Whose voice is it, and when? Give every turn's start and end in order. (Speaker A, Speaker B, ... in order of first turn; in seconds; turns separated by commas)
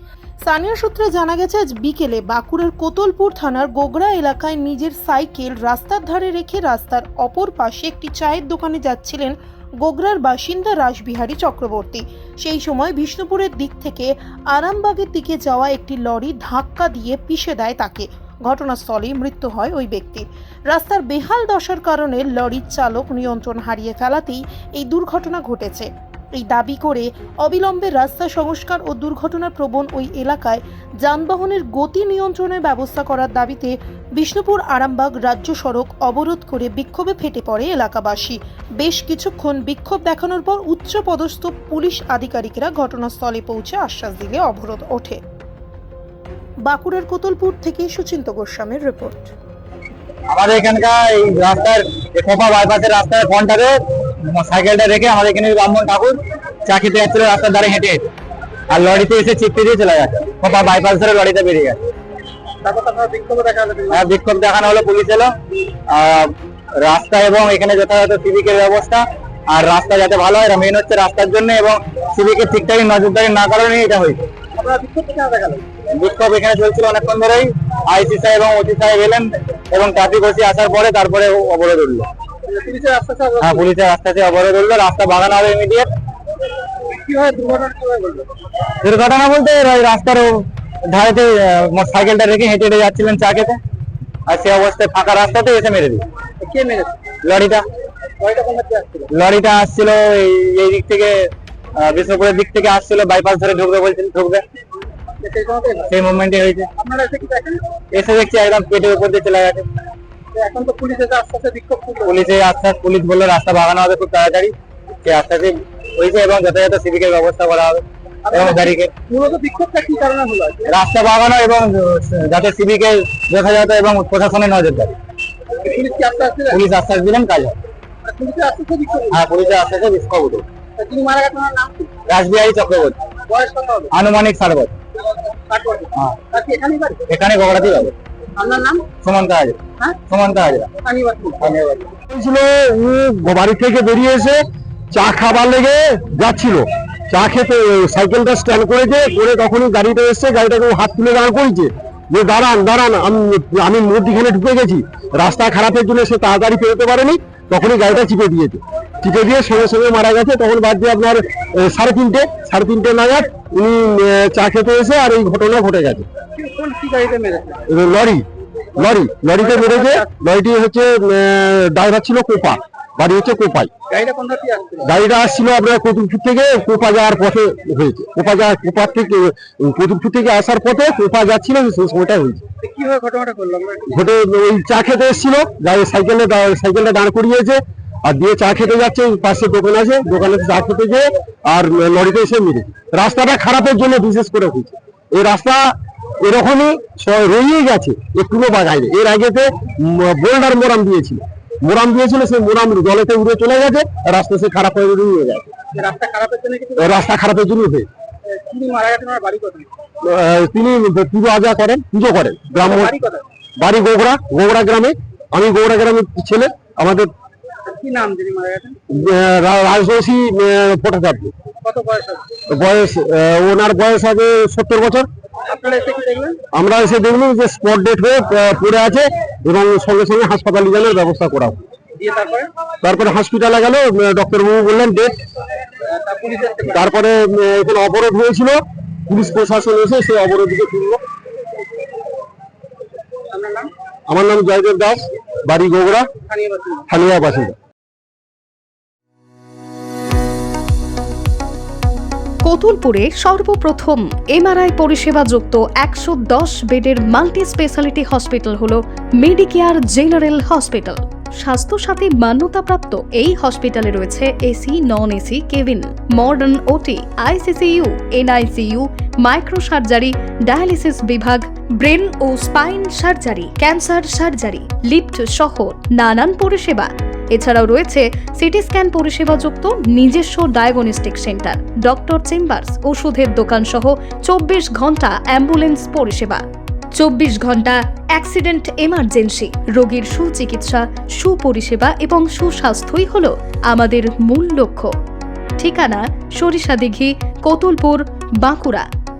Speaker A: 0.4-45.2, Speaker A: 46.6-49.3, Speaker B: 50.3-58.1, Speaker B: 58.7-61.8, Speaker C: 62.6-64.0, Speaker B: 63.9-65.3, Speaker B: 65.9-74.2, Speaker C: 74.5-75.7, Speaker B: 75.9-82.1, Speaker C: 82.4-83.7, Speaker B: 83.4-85.9, Speaker C: 86.9-88.3, Speaker B: 88.8-93.6, Speaker B: 94.3-96.0, Speaker C: 96.4-96.9, Speaker B: 97.2-97.6, Speaker C: 98.2-99.1, Speaker B: 99.1-104.4, Speaker C: 105.2-106.0, Speaker B: 105.9-106.7, Speaker C: 106.8-107.6, Speaker B: 107.9-109.7, Speaker C: 110.3-112.2, Speaker B: 112.0-118.9, Speaker C: 118.3-120.7, Speaker B: 120.7-124.9, Speaker C: 125.6-126.6, Speaker B: 126.5-127.5, Speaker C: 128.0-129.2, Speaker B: 129.1-130.4, Speaker C: 130.8-132.0, Speaker B: 132.1-133.0, Speaker C: 133.3-133.9, Speaker B: 133.9-134.8, Speaker C: 135.2-137.0, Speaker B: 137.1-137.9, Speaker C: 138.3-138.9, Speaker B: 139.0-140.7, Speaker C: 140.8-141.5, Speaker B: 141.4-141.9, Speaker D: 142.1-166.1, Speaker C: 166.3-167.7, Speaker D: 167.7-173.7, Speaker C: 169.4-170.1, Speaker C: 173.9-174.9, Speaker D: 174.8-182.4, Speaker C: 182.6-184.0, Speaker D: 183.9-205.5, Speaker C: 205.7-207.0, Speaker D: 206.8-207.9, Speaker C: 208.2-209.7, Speaker D: 210.0-212.9, Speaker C: 212.6-213.2, Speaker D: 213.6-217.1, Speaker C: 217.6-218.8, Speaker D: 218.9-221.3, Speaker C: 221.6-222.3, Speaker D: 222.5-225.1, Speaker C: 225.4-226.4, Speaker D: 226.5-231.6, Speaker C: 232.0-232.5, Speaker D: 232.8-235.1, Speaker C: 235.8-236.8, Speaker D: 236.7-241.0, Speaker C: 243.3-243.7, Speaker D: 244.1-246.1, Speaker C: 246.2-246.8, Speaker D: 246.9-247.6, Speaker E: 252.4-286.4, Speaker E: 286.9-294.9, Speaker E: 295.6-298.9